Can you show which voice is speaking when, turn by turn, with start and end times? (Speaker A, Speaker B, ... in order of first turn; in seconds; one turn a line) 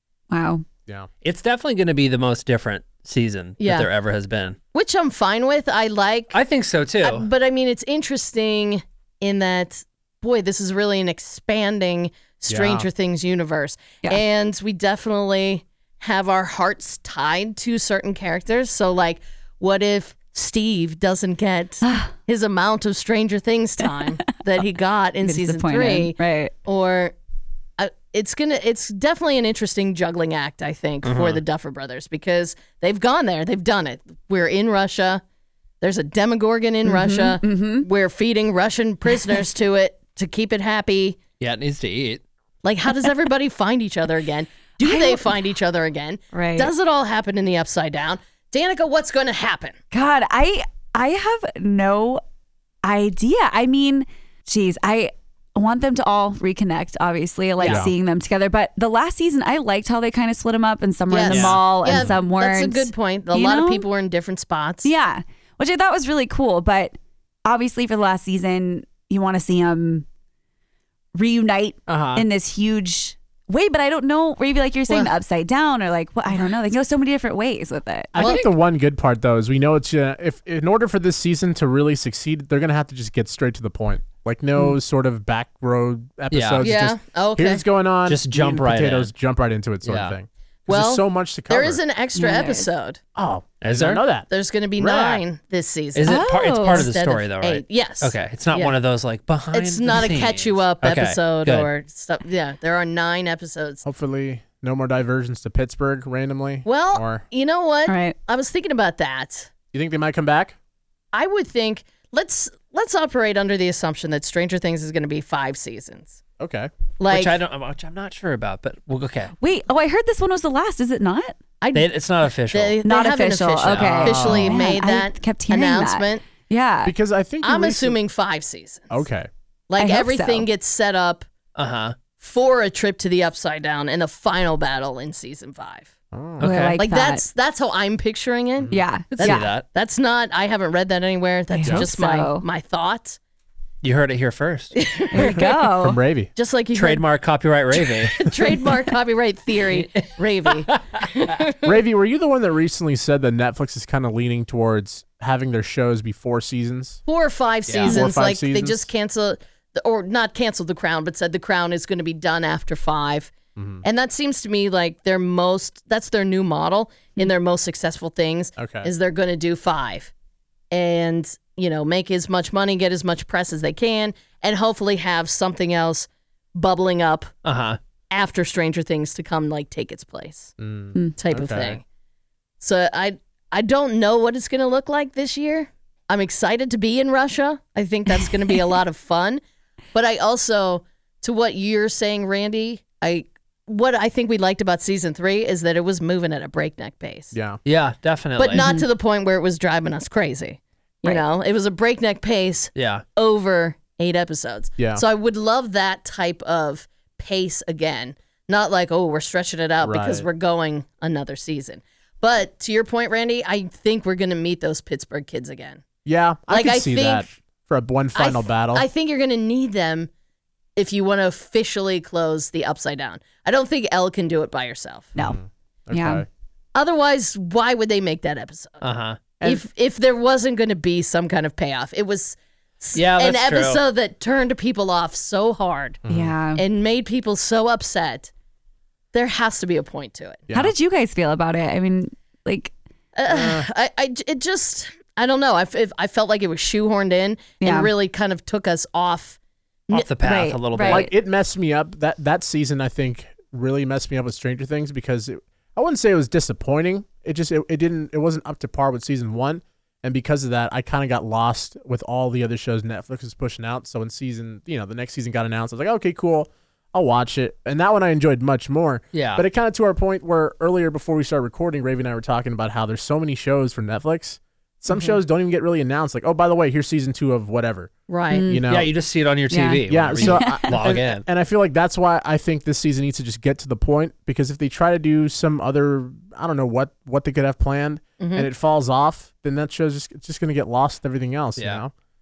Speaker A: 0.3-0.7
Speaker B: 1.2-4.6
Speaker C: 3.6-3.9
Speaker C: 4.7-6.4
Speaker B: 6.3-7.3
Speaker C: 7.0-27.1
Speaker D: 12.5-12.9
Speaker A: 21.9-22.1
Speaker A: 25.2-26.5
Speaker C: 27.8-35.2
Speaker B: 31.0-31.4
Speaker C: 35.8-41.2
Speaker A: 36.9-37.9
Speaker B: 41.4-42.2
Speaker C: 42.6-49.8
Speaker A: 44.8-45.3
Speaker A: 46.3-46.7
Speaker A: 49.9-52.2
Speaker A: 52.8-63.9
Speaker C: 57.6-57.9
Speaker D: 57.6-57.9
Speaker C: 61.1-64.9
Speaker B: 61.3-61.6
Speaker A: 64.8-70.0
Speaker A: 71.2-78.2
Speaker B: 71.9-72.3
Speaker D: 78.1-91.8
Speaker C: 78.2-78.5
Speaker B: 78.2-78.4
Speaker B: 86.3-86.7
Speaker C: 86.6-87.6
Speaker B: 88.1-89.1
Speaker B: 89.8-90.2
Speaker C: 90.7-93.0
Speaker A: 92.2-92.7
Speaker D: 93.2-95.2
Speaker B: 93.6-94.0
Speaker C: 94.3-98.8
Speaker B: 96.0-101.7
Speaker A: 96.1-96.9
Speaker C: 99.5-103.8
Speaker D: 103.8-107.2
Speaker C: 106.7-109.5
Speaker A: 107.9-108.2
Speaker D: 109.7-110.6
Speaker C: 111.1-116.2
Speaker D: 116.4-116.7
Speaker C: 117.0-117.4
Speaker B: 117.1-119.3
Speaker A: 119.4-121.3
Speaker C: 121.6-121.9
Speaker B: 121.7-122.8
Speaker C: 122.5-126.2
Speaker A: 122.8-127.0
Speaker B: 123.7-124.1
Speaker D: 124.0-124.6
Speaker D: 126.8-128.0
Speaker C: 127.4-129.0
Speaker D: 128.9-129.3
Speaker C: 129.7-131.3
Speaker A: 129.8-130.5
Speaker B: 131.6-131.9
Speaker C: 132.2-135.9
Speaker D: 136.1-136.5
Speaker B: 136.4-136.8
Speaker A: 136.4-137.2
Speaker C: 136.8-143.2
Speaker D: 138.6-138.8
Speaker A: 138.7-139.5
Speaker B: 139.2-139.6
Speaker A: 141.5-142.4
Speaker B: 143.8-144.7
Speaker C: 144.8-145.5
Speaker A: 145.1-146.0
Speaker D: 145.2-146.3
Speaker C: 146.4-147.1
Speaker B: 146.7-148.3
Speaker C: 148.1-151.7
Speaker B: 149.7-150.8
Speaker D: 151.6-157.0
Speaker C: 157.1-170.1
Speaker B: 157.7-158.0
Speaker D: 157.8-158.9
Speaker D: 163.6-163.8
Speaker D: 168.6-168.9
Speaker C: 170.7-177.3
Speaker B: 177.4-177.8
Speaker C: 178.1-180.5
Speaker D: 180.6-181.8
Speaker C: 181.2-181.8
Speaker C: 182.6-189.4
Speaker C: 189.9-197.3
Speaker D: 197.3-197.6
Speaker B: 197.7-198.7
Speaker C: 198.4-215.8
Speaker A: 198.6-198.9
Speaker B: 202.8-203.0
Speaker D: 204.8-205.0
Speaker D: 209.8-210.3
Speaker D: 216.1-218.9
Speaker C: 216.5-217.3
Speaker C: 218.2-220.1
Speaker C: 220.8-225.1
Speaker D: 225.2-226.3
Speaker A: 225.9-226.2
Speaker C: 226.8-228.8
Speaker B: 228.8-229.2
Speaker C: 229.4-236.0
Speaker B: 232.9-233.8
Speaker D: 236.1-236.4
Speaker A: 236.1-236.6
Speaker C: 236.6-238.3
Speaker C: 239.1-240.4
Speaker D: 240.5-240.7
Speaker A: 240.5-242.7
Speaker C: 243.2-249.4
Speaker D: 243.3-243.7
Speaker A: 247.6-247.9
Speaker B: 249.9-251.1
Speaker A: 250.2-251.1
Speaker D: 250.8-278.9
Speaker B: 269.1-269.4
Speaker C: 278.1-278.4
Speaker A: 278.3-278.7
Speaker B: 278.7-281.2
Speaker A: 279.5-280.9
Speaker D: 279.9-291.9
Speaker C: 288.2-288.5
Speaker B: 291.6-291.8